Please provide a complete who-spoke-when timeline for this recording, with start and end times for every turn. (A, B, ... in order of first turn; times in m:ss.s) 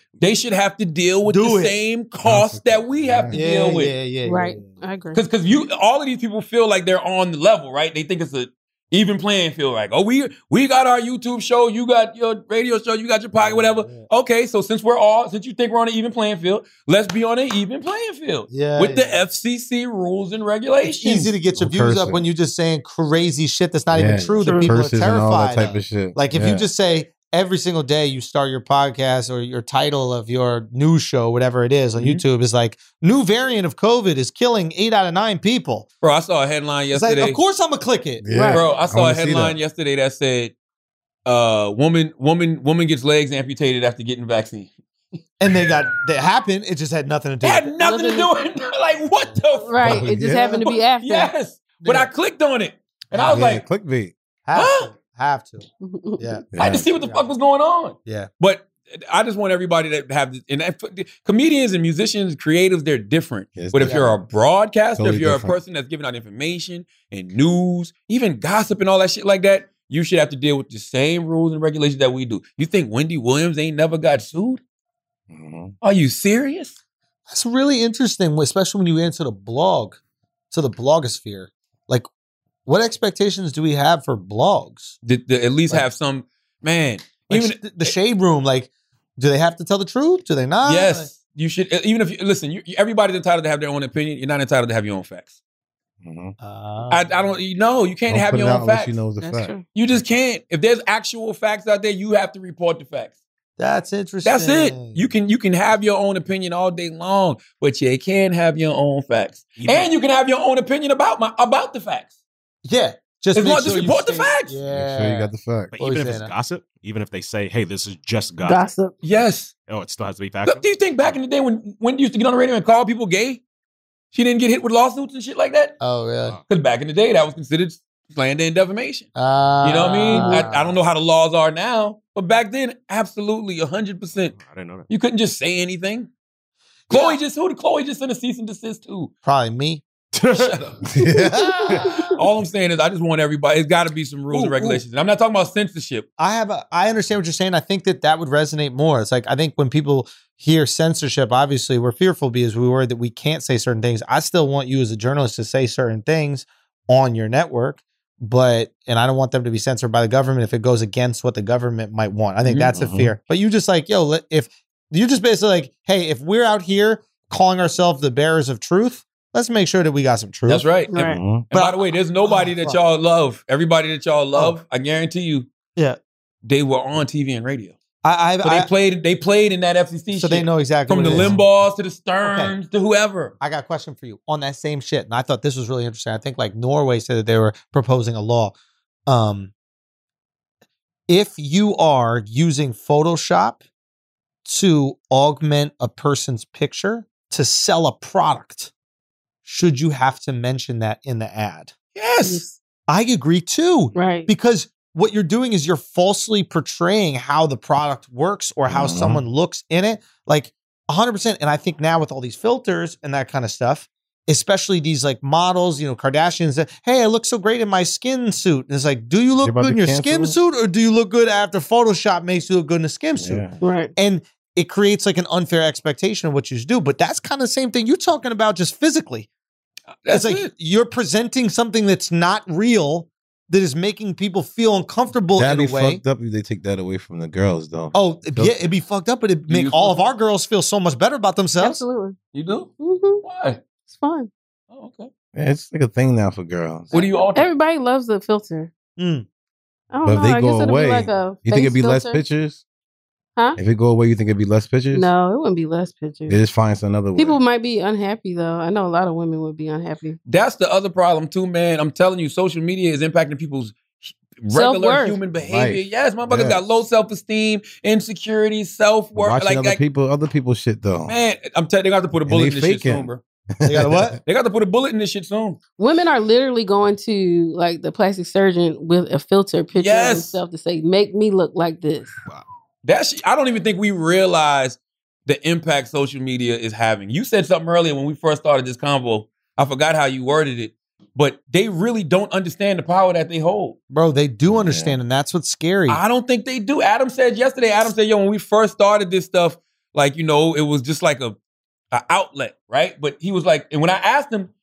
0:00.2-0:03.9 A
0:01.2-0:01.7 B
0:02.2-0:03.4 C
0:03.3-0:04.7 B
0:04.2-0:05.2 D
0:05.1-0:21.3 A
0:13.4-0:14.1 B
0:18.5-0:19.2 B
0:20.8-0:35.9 B
0:21.6-0:22.2 C
0:23.9-0:26.7 C
0:24.4-0:24.7 D
0:32.0-0:32.2 A
0:36.0-0:37.4 A
0:36.9-0:38.2 B
0:38.2-0:39.6 C
0:38.3-0:38.6 D
0:38.5-0:40.5 A
0:41.3-0:44.7 A
0:45.4-0:47.7 B
0:47.4-0:53.6 A
0:47.8-0:48.3 D
0:49.5-0:51.3 D
0:49.8-0:50.6 C
0:51.8-0:52.1 B
0:53.1-0:53.4 B
0:53.1-0:54.1 C
0:54.4-0:55.6 B
0:54.6-0:54.9 A
0:55.8-0:56.4 D
0:56.2-0:57.3 B
0:56.5-0:56.9 C
0:56.6-1:14.6 A
1:03.6-1:04.0 C
1:03.8-1:04.2 B
1:05.0-1:05.6 C
1:15.3-1:15.7 C
1:15.8-1:16.8 A
1:17.3-1:20.0 B
1:20.5-1:22.1 B
1:22.6-1:25.0 B
1:25.0-1:27.9 A
1:27.3-1:31.1 B
1:30.6-1:35.4 A
1:36.0-1:36.4 C
1:36.4-1:37.1 B
1:36.9-1:39.0 A
1:38.1-1:40.1 C
1:39.2-1:39.6 D
1:39.7-1:43.2 A
1:43.6-1:45.1 B
1:44.2-1:52.1 A
1:49.6-1:49.9 E
1:52.6-1:56.3 B
1:53.3-1:54.6 A
1:54.7-1:55.7 C
1:55.7-1:58.7 E
1:58.4-1:58.9 D
1:59.0-1:59.5 A
1:59.6-2:01.1 E
2:00.4-2:03.4 A
2:04.1-2:05.8 A
2:05.8-2:06.4 B
2:06.5-2:09.1 A
2:09.1-2:10.7 B
2:09.6-2:14.4 A
2:10.1-2:10.5 D
2:14.3-2:14.9 E
2:14.9-2:16.1 A
2:16.9-2:17.2 B
2:16.9-2:19.1 A
2:19.2-2:19.8 B
2:20.3-2:20.8 A
2:20.8-2:21.9 C
2:21.2-2:22.1 D
2:21.3-2:21.9 B
2:22.1-2:26.1 A
2:24.3-2:24.8 B
2:26.2-2:50.6 B
2:42.4-2:42.7 A
2:42.7-2:43.1 C
2:50.5-2:55.5 A
2:50.9-2:51.2 D
2:51.0-2:51.4 C
2:51.5-2:52.8 B
2:56.4-2:57.8 A
2:58.0-2:58.7 B
2:58.4-3:03.3 A
3:00.1-3:01.4 B
3:01.0-3:01.4 C
3:02.2-3:02.5 B
3:03.4-3:08.6 B
3:09.1-3:09.5 B
3:11.1-3:13.6 B
3:14.4-3:18.7 B
3:19.4-3:21.7 B
3:22.0-3:22.4 A
3:22.2-3:22.6 D
3:22.9-3:43.4 B
3:23.9-3:24.3 D
3:28.7-3:29.2 C
3:39.4-3:40.4 C
3:43.2-3:43.6 C
3:43.6-3:43.9 D
3:44.0-3:49.3 B
3:50.0-3:50.5 A
3:50.1-3:56.0 B
3:55.4-3:58.7 C
3:57.9-4:01.8 B
3:59.5-4:00.0 A
4:01.6-4:02.2 D
4:02.3-4:02.7 A
4:02.8-4:03.2 D
4:03.2-4:03.6 A
4:03.9-4:04.3 D
4:04.7-4:05.1 A
4:05.3-4:06.9 C
4:06.9-4:07.5 A
4:06.9-4:08.7 D
4:09.0-4:09.3 B
4:09.9-4:12.2 D
4:10.0-4:12.6 C
4:13.6-4:15.1 C
4:14.9-4:16.4 D
4:16.3-4:17.4 C
4:17.2-4:20.2 D
4:20.3-4:29.8 A
4:24.5-4:25.2 D
4:25.4-4:26.6 C
4:29.2-4:31.2 C
4:31.1-4:33.2 A
4:32.3-4:33.1 C
4:33.6-4:34.2 C
4:33.6-4:34.2 B
4:34.3-4:35.6 A
4:35.8-4:42.1 D
4:39.7-4:40.4 A
4:42.8-4:53.8 A
4:53.9-4:56.0 B
4:54.5-4:55.0 C
4:55.9-5:01.4 A
5:01.9-5:04.5 A